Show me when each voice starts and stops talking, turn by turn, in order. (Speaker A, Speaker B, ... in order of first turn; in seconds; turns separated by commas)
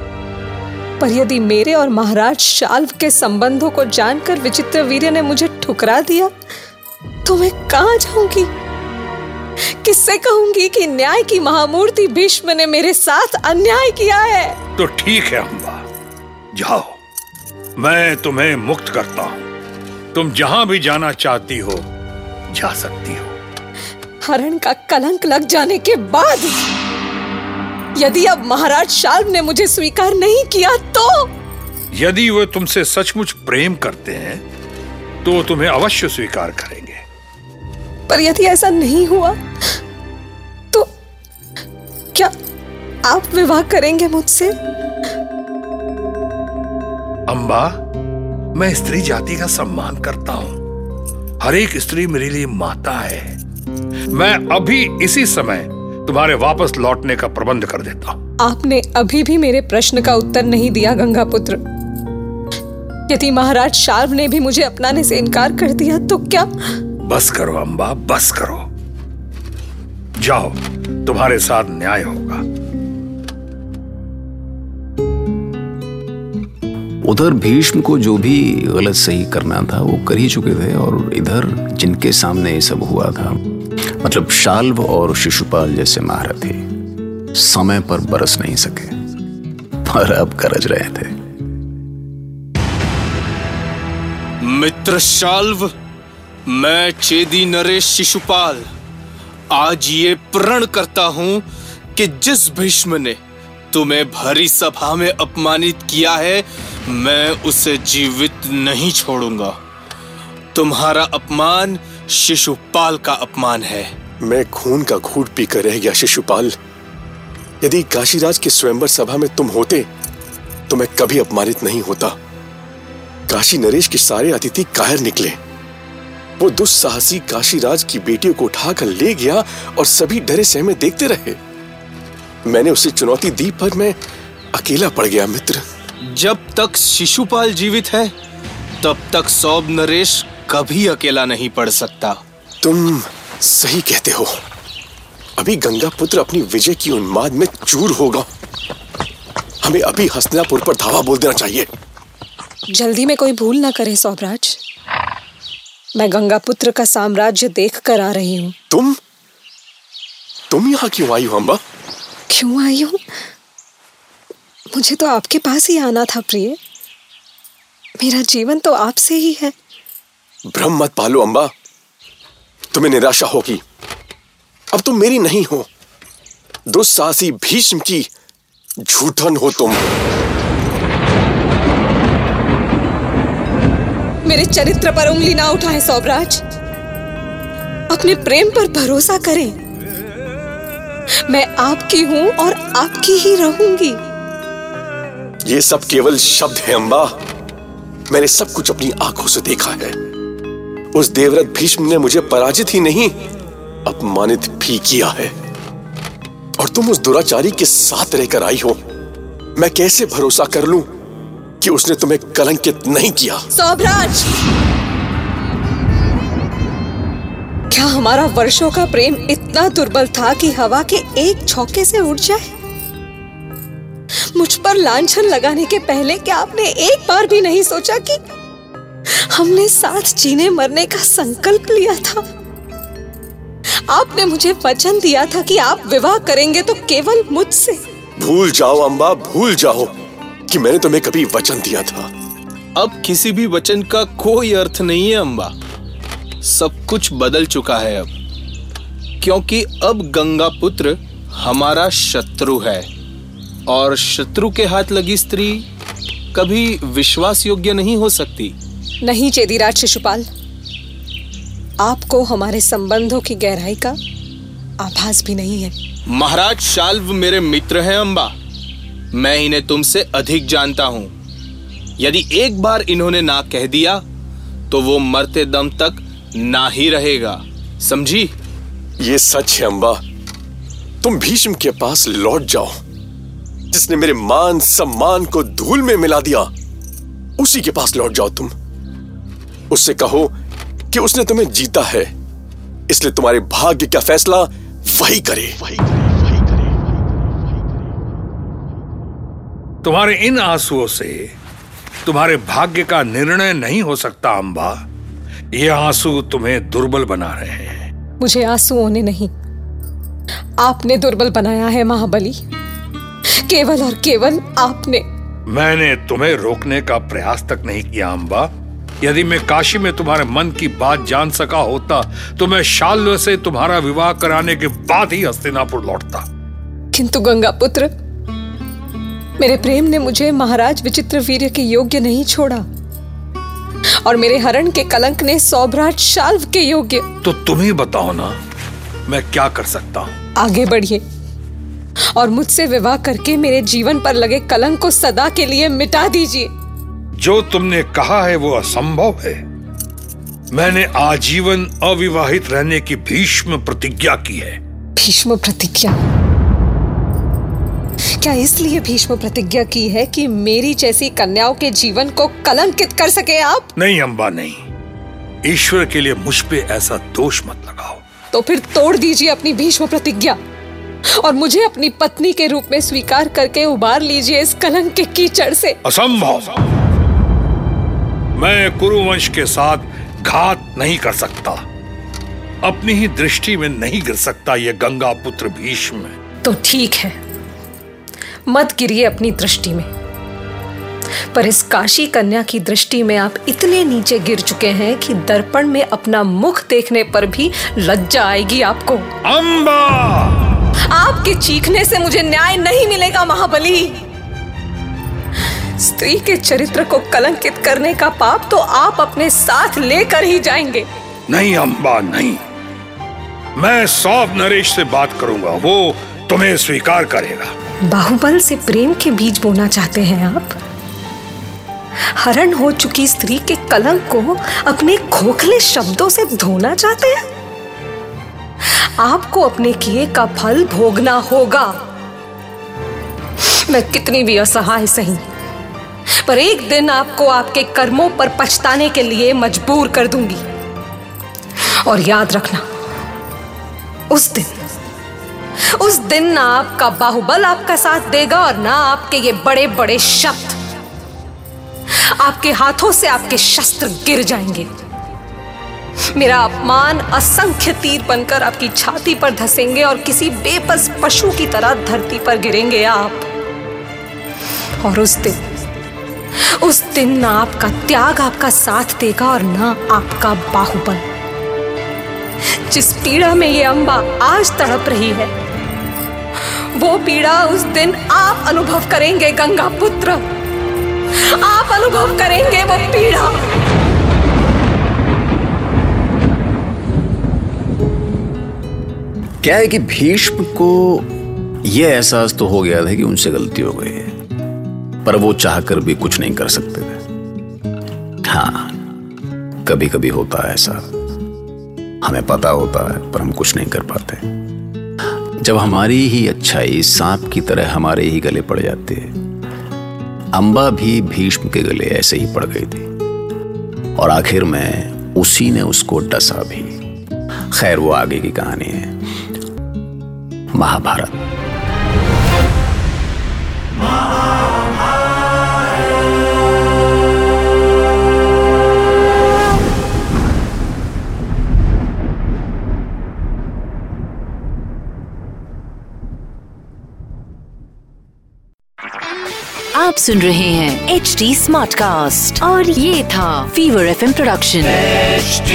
Speaker A: 1.0-6.3, Speaker A: 7.2-8.5, Speaker A: 9.6-14.6, Speaker B: 14.8-15.8, Speaker B: 16.5-17.0, Speaker B: 17.8-19.5, Speaker B: 20.1-21.9, Speaker B: 22.5-23.3, Speaker A: 24.2-26.6, Speaker A: 27.9-31.3, Speaker B: 31.9-34.4, Speaker B: 35.2-37.0, Speaker A: 38.1-39.4, Speaker A: 43.0-44.5, Speaker B: 47.3-47.8, Speaker B: 48.5-50.6, Speaker B: 51.4-53.4, Speaker B: 54.1-58.2, Speaker A: 58.4-61.6, Speaker A: 63.1-66.5, Speaker B: 67.0-68.6, Speaker B: 70.2-72.4, Speaker C: 77.0-86.6, Speaker C: 87.3-88.9, Speaker C: 89.8-91.1, Speaker D: 94.4-95.7, Speaker D: 96.5-98.7, Speaker D: 99.5-103.2, Speaker D: 103.7-109.6, Speaker D: 110.5-113.9, Speaker E: 114.2-116.5, Speaker E: 117.6-119.9, Speaker E: 120.7-122.2, Speaker E: 123.3-125.4, Speaker E: 126.4-131.4, Speaker E: 132.4-134.0, Speaker E: 134.5-135.6, Speaker D: 136.0-138.1, Speaker D: 138.8-142.2, Speaker E: 142.6-144.3, Speaker E: 145.4-148.3, Speaker E: 149.6-151.7, Speaker A: 152.7-154.6, Speaker A: 155.9-158.5, Speaker E: 158.7-158.9, Speaker E: 160.5-161.6, Speaker A: 162.3-163.0, Speaker A: 164.7-166.6, Speaker A: 168.0-169.5, Speaker E: 170.5-171.5, Speaker E: 172.7-173.6, Speaker E: 174.7-175.7, Speaker E: 176.7-178.1, Speaker E: 178.8-179.8, Speaker A: 184.2-186.4, Speaker A: 187.9-189.6, Speaker A: 191.2-194.0, Speaker E: 195.4-197.1, Speaker E: 198.1-199.9, Speaker E: 200.9-203.2, Speaker E: 203.8-205.3, Speaker E: 206.6-208.8, Speaker E: 209.6-210.9, Speaker E: 211.6-213.4, Speaker A: 213.5-214.3, Speaker A: 217.7-222.5, Speaker A: 224.3-228.2, Speaker A: 229.1-232.2, Speaker A: 233.9-237.8, Speaker E: 238.2-239.9, Speaker E: 240.5-242.1, Speaker D: 242.8-245.5, Speaker D: 246.4-248.1, Speaker D: 249.2-252.9, Speaker D: 253.7-255.7, Speaker D: 256.3-258.5, Speaker A: 259.0-260.2, Speaker A: 261.8-264.0, Speaker A: 264.8-265.8, Speaker D: 266.1-268.3, Speaker D: 269.1-271.1, Speaker D: 272.0-274.0, Speaker D: 274.7-278.3, Speaker E: 279.0-280.0, Speaker E: 281.0-282.8, Speaker E: 283.7-286.5, Speaker E: 287.4-288.5, Speaker E: 289.7-290.3, Speaker E: 290.9-292.1, Speaker E: 292.9-296.7, Speaker B: 299.8-301.3, Speaker B: 302.1-304.8, Speaker B: 305.5-307.9, Speaker A: 308.2-309.3, Speaker A: 310.6-312.4, Speaker A: 313.4-315.0, Speaker B: 315.5-318.5, Speaker B: 319.0-326.2, Speaker A: 326.9-327.9, Speaker A: 329.4-332.6, Speaker A: 334.0-337.1, Speaker B: 337.2-338.4, Speaker B: 339.1-340.1, Speaker A: 340.4-341.0, Speaker A: 342.1-346.5, Speaker B: 347.2-349.4, Speaker B: 350.5-354.6, Speaker A: 354.9-356.0, Speaker A: 358.2-363.7, Speaker B: 363.8-364.6, Speaker B: 365.4-368.0, Speaker A: 368.3-370.4, Speaker A: 371.2-375.8, Speaker B: 375.8-376.8, Speaker B: 378.4-381.6, Speaker B: 382.6-386.1, Speaker A: 386.4-387.2, Speaker A: 388.5-389.9, Speaker A: 391.3-399.1, Speaker B: 399.2-400.4, Speaker A: 400.9-404.0, Speaker A: 405.8-410.9, Speaker B: 411.3-412.4, Speaker B: 413.6-417.5, Speaker A: 417.9-420.5, Speaker A: 422.2-427.2, Speaker A: 428.6-431.8, Speaker A: 433.4-435.2, Speaker A: 436.2-440.4, Speaker A: 441.6-442.6, Speaker A: 444.1-444.6, Speaker A: 445.7-450.6, Speaker A: 452.0-454.7, Speaker A: 456.1-463.3, Speaker A: 464.8-465.4, Speaker A: 466.6-471.0, Speaker A: 472.7-475.3, Speaker A: 476.5-480.2, Speaker A: 481.2-483.4, Speaker C: 489.4-491.1, Speaker C: 491.6-494.1, Speaker C: 495.0-497.0, Speaker C: 498.2-498.8, Speaker C: 499.6-500.8, Speaker C: 502.0-504.2, Speaker C: 505.4-509.1, Speaker C: 510.3-512.9, Speaker C: 514.0-516.7, Speaker C: 517.5-519.0, Speaker C: 520.5-521.2, Speaker F: 539.7-545.0